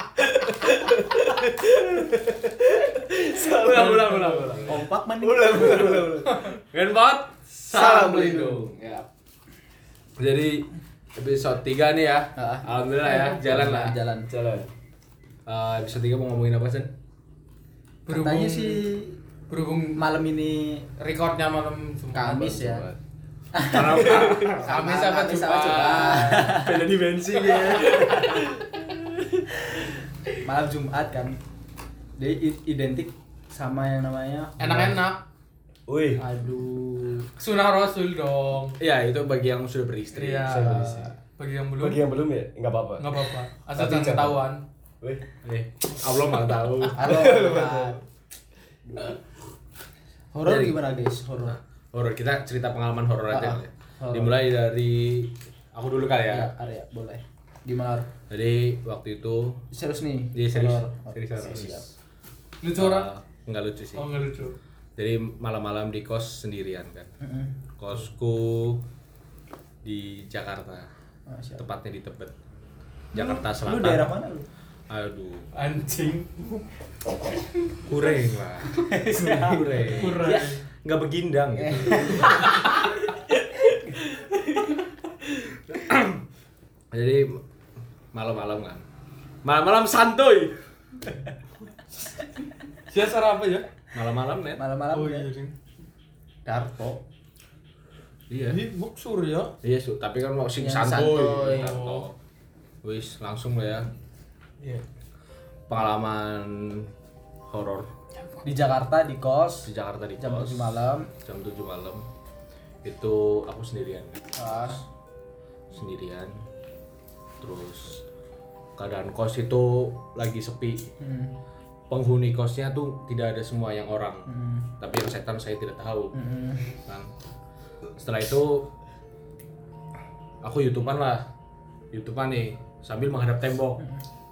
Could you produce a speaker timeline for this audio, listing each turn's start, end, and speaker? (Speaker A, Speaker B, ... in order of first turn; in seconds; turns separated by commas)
Speaker A: 0.5-6.5, Speaker B: 1.5-2.1, Speaker B: 3.3-4.8, Speaker C: 4.6-6.4, Speaker B: 6.6-9.1, Speaker D: 7.7-8.6, Speaker C: 7.7-8.5, Speaker A: 7.8-8.4, Speaker B: 10.2-14.0, Speaker C: 12.4-14.3, Speaker A: 14.3-14.7, Speaker B: 15.5-16.9, Speaker C: 18.1-19.2, Speaker D: 18.1-18.8, Speaker D: 19.5-20.1, Speaker C: 20.0-20.9, Speaker D: 21.0-22.5, Speaker C: 22.1-22.9, Speaker A: 22.2-23.0, Speaker C: 23.5-26.8, Speaker B: 23.6-24.7, Speaker A: 24.0-24.4, Speaker D: 24.3-26.3, Speaker B: 25.7-28.5, Speaker A: 26.5-28.4, Speaker C: 30.4-31.4, Speaker C: 32.2-35.0, Speaker D: 34.6-35.2, Speaker A: 35.9-36.2, Speaker C: 36.2-37.2, Speaker D: 37.4-38.8, Speaker B: 38.8-40.6, Speaker D: 40.1-42.0, Speaker A: 40.5-41.1, Speaker A: 41.8-44.4, Speaker D: 43.0-44.6, Speaker B: 45.4-47.3, Speaker C: 46.9-48.0, Speaker A: 47.0-48.0, Speaker C: 50.3-51.6, Speaker B: 50.5-56.5, Speaker C: 53.3-54.4, Speaker C: 56.3-58.1, Speaker B: 58.3-59.6, Speaker C: 59.7-61.9, Speaker B: 60.3-61.9, Speaker D: 62.6-63.1, Speaker B: 62.7-64.1, Speaker D: 64.0-64.6, Speaker B: 65.0-67.1, Speaker C: 67.2-67.6, Speaker B: 67.8-68.8, Speaker B: 69.8-70.9, Speaker C: 71.3-71.6, Speaker B: 71.6-72.3, Speaker B: 73.1-74.2, Speaker C: 73.2-74.5, Speaker B: 74.9-75.5, Speaker D: 75.5-76.3, Speaker B: 77.8-80.2, Speaker C: 78.9-80.6, Speaker A: 79.1-80.0, Speaker D: 80.0-80.6, Speaker B: 80.8-82.8, Speaker C: 81.5-82.8, Speaker B: 85.7-86.2, Speaker B: 86.9-87.4, Speaker B: 88.1-88.8, Speaker B: 89.4-90.6, Speaker D: 92.9-93.7, Speaker B: 93.9-94.6, Speaker C: 94.6-95.3, Speaker D: 94.9-95.5, Speaker C: 96.4-97.0, Speaker B: 98.3-98.6, Speaker D: 98.5-99.6, Speaker B: 99.6-102.1, Speaker C: 100.6-101.8, Speaker D: 101.6-102.0, Speaker B: 102.8-103.9, Speaker B: 105.7-106.9, Speaker B: 107.5-107.9, Speaker C: 108.4-111.1, Speaker B: 109.7-110.7, Speaker B: 111.2-112.0, Speaker B: 112.8-114.2, Speaker C: 114.3-114.8, Speaker B: 115.7-116.3, Speaker B: 117.4-118.0, Speaker B: 118.8-120.9, Speaker C: 121.0-121.4, Speaker B: 121.9-124.3, Speaker C: 124.3-124.7, Speaker B: 124.8-126.2, Speaker C: 126.1-126.8, Speaker B: 128.0-128.7, Speaker B: 130.4-131.3, Speaker B: 131.9-133.8